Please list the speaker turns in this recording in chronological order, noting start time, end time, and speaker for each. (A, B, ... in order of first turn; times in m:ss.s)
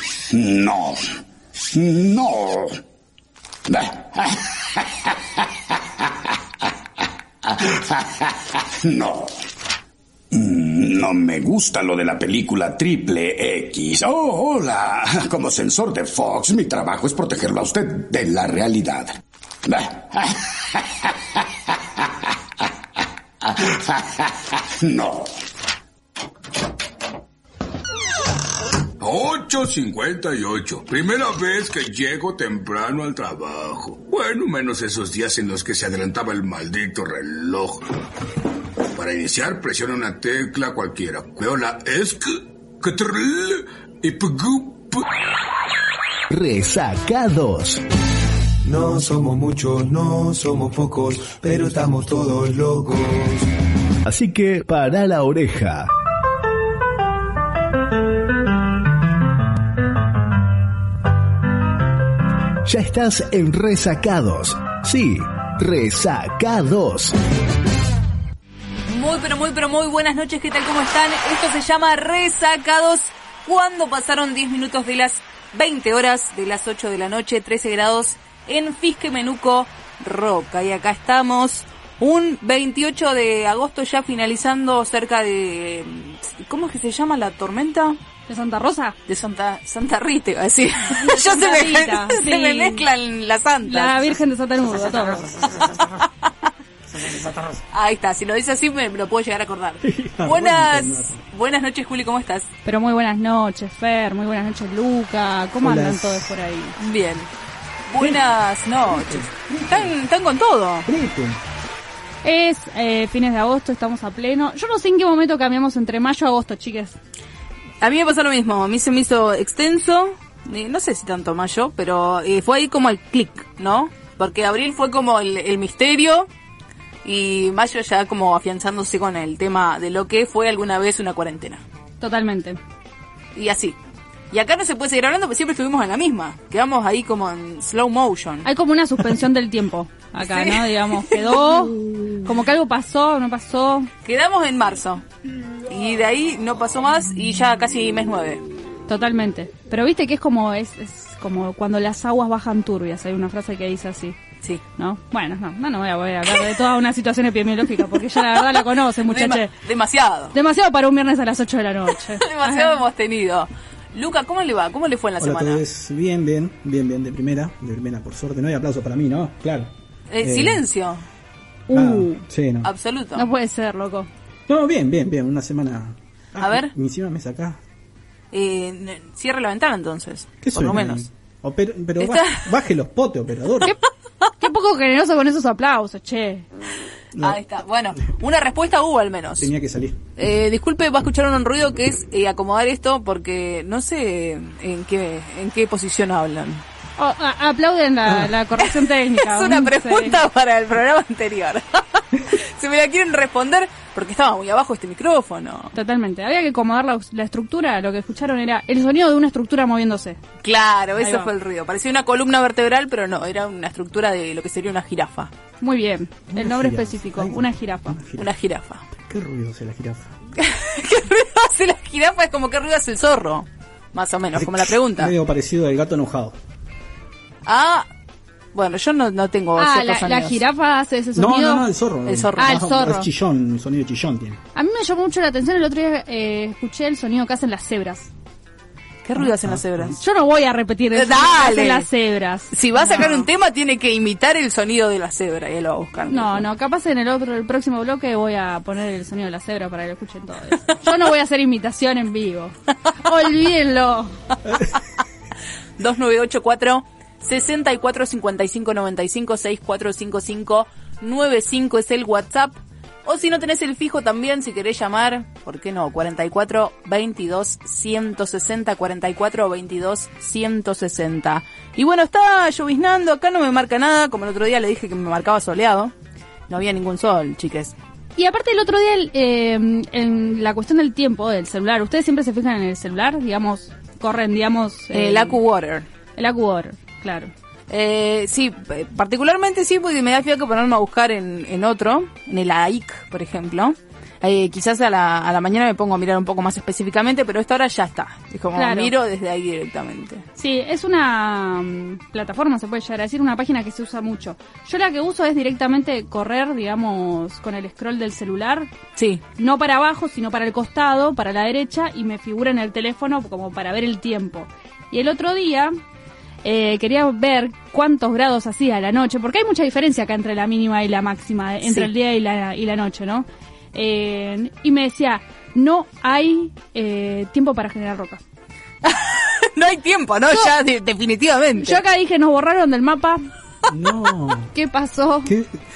0:00.3-0:02.8 A
0:03.7-0:05.1 A
0:07.4-0:09.3 A
0:10.3-0:19.1 A
0:19.6-0:21.1 A
0:23.4-0:25.3 A
0:29.0-0:37.9 B
0:38.9-0:45.0 B
0:46.3-0:47.8 C
0:48.6-0:53.5 D
0:54.0-0:55.9 C
1:02.6-1:07.2 C
1:08.9-1:28.0 E
1:28.3-1:29.0 F
1:29.1-1:34.1 E
1:30.9-1:32.8 F
1:33.6-1:35.6 F
1:35.6-1:36.2 E
1:37.7-1:42.5 E
1:39.8-1:41.2 G
1:42.6-1:46.8 F
1:45.6-1:46.3 G
1:46.8-1:47.3 E
1:47.9-1:50.9 E
1:48.9-1:49.9 G
1:50.8-1:51.4 G
1:52.2-1:57.0 F
1:57.8-2:06.3 E
2:07.0-2:11.6 E
2:12.0-2:12.6 F
2:13.3-2:13.8 E
2:14.3-2:18.5 E
2:18.4-2:23.9 F
2:20.2-2:21.7 E
2:24.0-2:25.0 E
2:25.7-2:28.4 E
2:28.9-2:34.2 F
2:34.8-2:39.5 F
2:38.2-2:40.3 E
2:40.3-2:42.8 F
2:42.2-2:45.6 E
2:45.2-2:50.6 G
2:50.1-2:51.0 E
2:51.7-2:52.2 F
2:51.7-2:52.7 G
2:52.6-2:53.2 E
2:53.1-2:54.1 F
2:54.5-2:57.6 G
2:56.4-2:56.7 E
2:58.3-3:01.0 E
3:00.4-3:03.7 G
3:02.0-3:02.5 E
3:04.4-3:06.5 F
3:07.1-3:07.4 G
3:07.2-3:09.5 E
3:09.4-3:10.0 G
3:10.2-3:16.6 E
3:17.0-3:20.2 F
3:18.6-3:25.7 E
3:25.7-3:30.2 F
3:30.4-3:35.3 E
3:31.0-3:31.3 F
3:35.6-3:38.0 F
3:36.3-3:38.3 G
3:38.2-3:38.8 E
3:39.1-3:40.1 G
3:40.4-3:45.1 E
3:44.3-3:46.4 G
3:47.4-3:47.9 E
3:48.5-3:50.4 E
3:49.6-3:51.6 F
3:51.1-3:54.4 G
3:52.0-3:52.6 E
3:52.4-3:53.1 F
3:54.5-3:58.1 F
3:59.0-4:00.0 E
3:59.4-3:59.9 G
4:00.0-4:03.2 F
4:00.9-4:01.8 E
4:02.5-4:06.4 E
4:06.1-4:14.1 F
4:15.8-4:35.9 E
4:36.5-4:37.7 E
4:38.2-4:45.4 F
4:44.9-4:45.8 E
4:46.2-4:47.3 F
4:47.7-5:00.2 E
4:58.6-4:58.9 F
5:00.4-5:08.7 F
5:09.0-5:09.2 E
5:09.4-5:15.7 F
5:16.4-5:28.2 F
5:28.8-5:31.8 E
5:31.6-5:33.2 F
5:33.7-5:34.5 G
5:34.5-5:35.3 F
5:35.2-5:35.6 G